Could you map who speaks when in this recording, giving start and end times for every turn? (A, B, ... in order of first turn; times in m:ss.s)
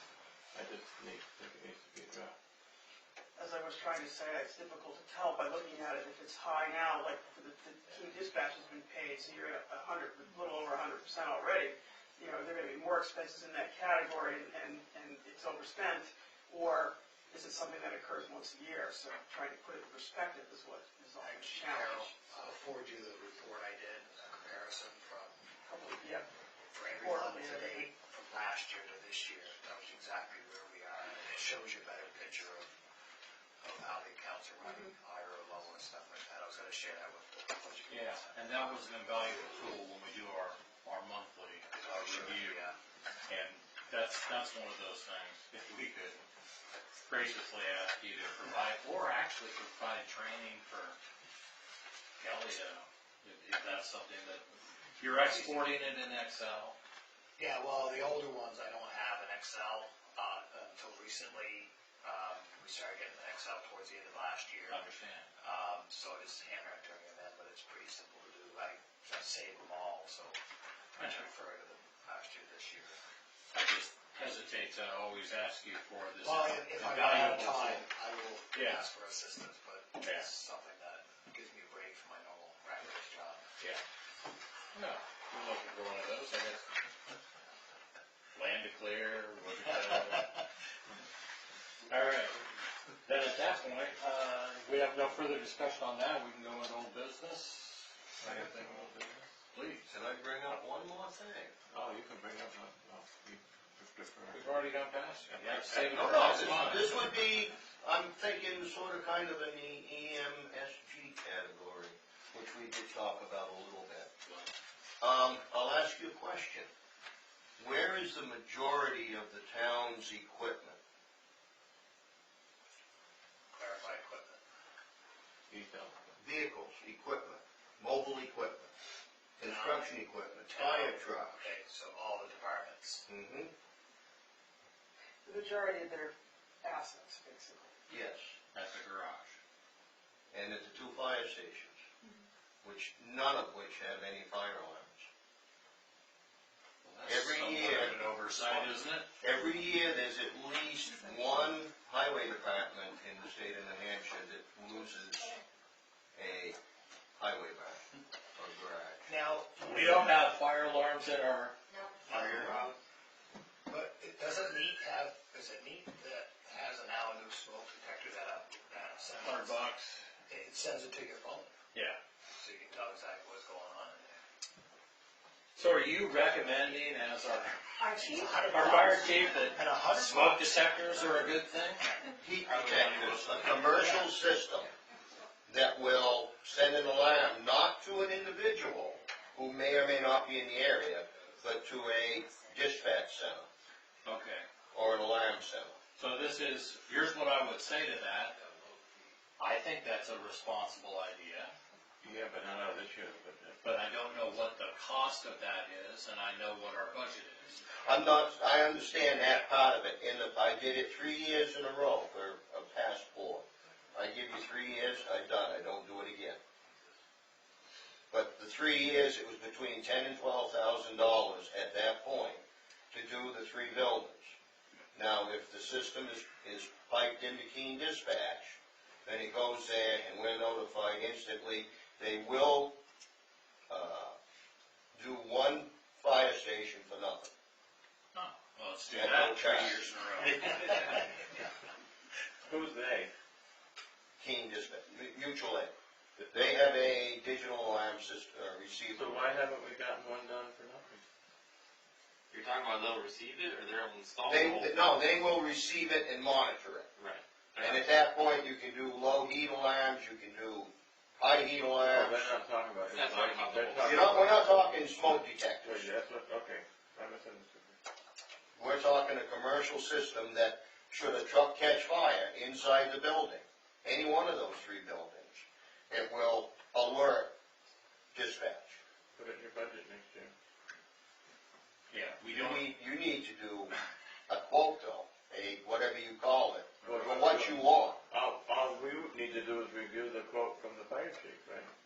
0:00.5-0:02.3 A
0:03.4-0:22.2 B
0:21.2-0:25.4 C
0:25.6-0:26.3 B
0:26.7-0:32.7 C
0:27.0-0:27.9 B
0:33.6-0:38.4 C
0:34.6-0:34.9 B
0:37.9-0:42.6 D
0:41.7-0:42.8 C
0:43.3-0:46.2 D
0:47.0-0:51.0 D
0:52.2-0:54.4 D
0:55.0-0:56.8 D
0:55.3-0:55.6 C
0:57.4-1:04.8 C
1:04.7-1:05.3 D
1:05.4-1:10.4 C
1:11.0-1:11.3 D
1:11.0-1:13.0 C
1:13.5-1:17.9 D
1:16.2-1:23.5 C
1:18.5-1:18.8 D
1:20.0-1:20.3 D
1:24.7-1:26.6 D
1:28.4-1:30.4 D
1:29.9-1:30.4 C
1:31.9-1:32.4 D
1:33.0-1:38.6 D
1:38.2-1:39.3 A
1:39.5-1:39.9 D
1:39.9-1:41.5 E
1:41.7-1:44.5 A
1:44.3-1:46.9 D
1:45.3-1:45.9 A
1:45.9-1:54.1 E
1:55.0-1:56.7 E
1:57.6-2:00.8 E
2:03.5-2:04.4 C
2:05.5-2:05.9 A
2:06.2-2:08.7 E
2:09.4-2:11.5 E
2:09.4-2:09.9 C
2:10.5-2:13.0 C
2:13.1-2:13.5 E
2:15.2-2:17.7 B
2:17.9-2:18.3 E
2:18.5-2:19.4 D
2:20.3-2:21.8 E
2:22.6-2:25.1 E
2:26.8-2:29.1 D
2:27.0-2:35.4 E
2:36.1-2:36.6 E
2:37.2-2:37.8 E
2:38.3-2:39.0 E
2:39.0-2:40.1 C
2:39.6-2:41.6 D
2:42.1-2:42.8 C
2:42.3-2:42.6 E
2:43.7-2:49.6 C
2:49.2-2:50.0 D
2:50.3-2:51.5 C
2:51.7-2:52.0 D
2:52.3-2:54.2 C
2:55.6-2:57.8 D
2:57.9-3:00.6 C
2:58.5-3:01.9 D
3:02.2-3:04.7 E
3:02.4-3:04.1 F
3:05.5-3:13.5 E
3:14.0-3:14.5 D
3:14.7-3:15.8 E
3:16.0-3:18.3 D
3:18.3-3:19.1 F
3:19.4-3:21.5 D
3:22.0-3:23.6 A
3:23.6-3:27.6 D
3:27.8-3:36.4 E
3:38.1-3:44.4 E
3:44.9-3:52.8 E
3:53.7-3:54.1 E
3:54.9-3:57.3 E
3:58.1-4:01.0 D
3:58.9-3:59.8 E
4:02.4-4:03.1 A
4:04.2-4:05.7 E
4:06.2-4:06.6 A
4:06.3-4:09.2 E
4:08.9-4:11.0 A
4:12.3-4:14.8 F
4:14.2-4:16.9 E
4:17.0-4:18.0 F
4:17.6-4:22.3 E
4:21.8-4:24.5 A
4:22.8-4:24.5 F
4:23.8-4:25.9 E
4:25.6-4:27.8 A
4:28.6-4:37.3 E
4:38.1-4:38.8 E
4:39.1-4:40.3 A
4:41.9-4:42.7 D
4:42.3-4:43.8 E
4:44.3-4:48.0 E
4:46.8-4:51.7 A